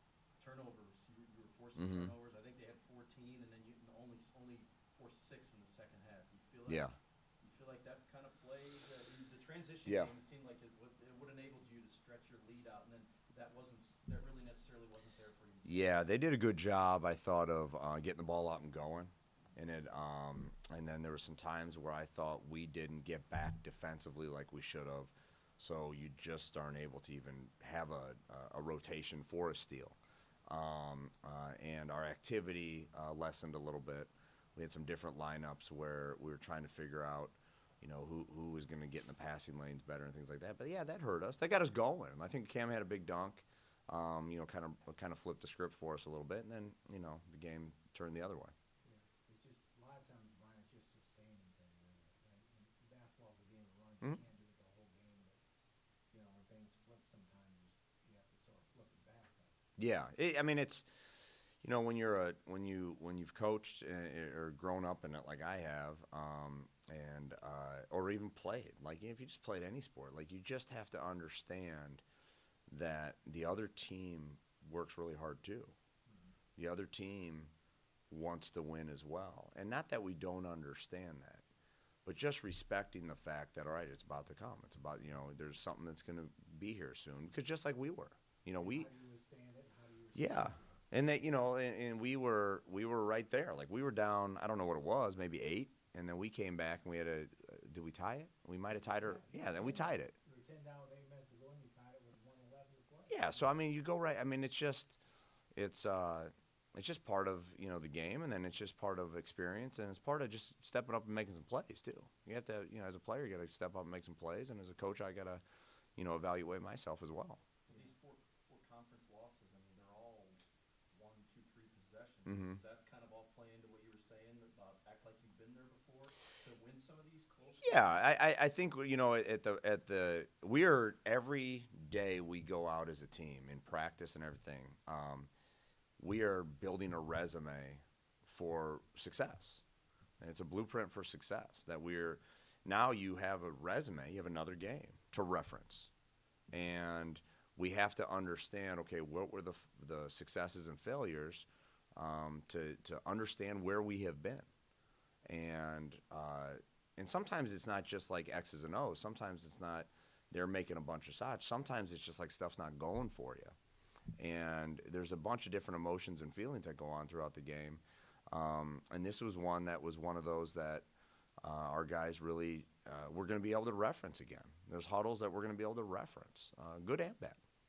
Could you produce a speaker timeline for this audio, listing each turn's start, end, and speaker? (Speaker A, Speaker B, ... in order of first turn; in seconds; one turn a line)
Speaker A: 0.4-16.0
Speaker B: 1.8-2.1
Speaker B: 6.7-6.9
Speaker B: 9.8-10.1
Speaker B: 15.6-48.5
Speaker C: 48.8-55.4
Speaker C: 56.1-59.5
Speaker B: 59.8-60.9
Speaker B: 61.6-72.0
Speaker B: 72.7-75.7
Speaker C: 76.0-76.3
Speaker B: 76.6-77.5
Speaker B: 78.1-81.4
Speaker B: 82.0-88.9
Speaker C: 88.6-90.8
Speaker B: 90.1-100.1
Speaker C: 98.8-103.6
Speaker B: 103.1-105.0
Speaker B: 105.5-115.4
Speaker B: 116.0-117.4
Speaker A: 117.7-120.4
Speaker A: 120.9-128.0
Speaker B: 122.2-122.6
Speaker B: 127.6-135.3
Speaker B: 136.0-139.6
Speaker B: 140.2-145.9
Speaker B: 146.5-154.5
Speaker B: 155.2-163.6
Speaker B: 164.2-170.9
Speaker B: 171.4-177.4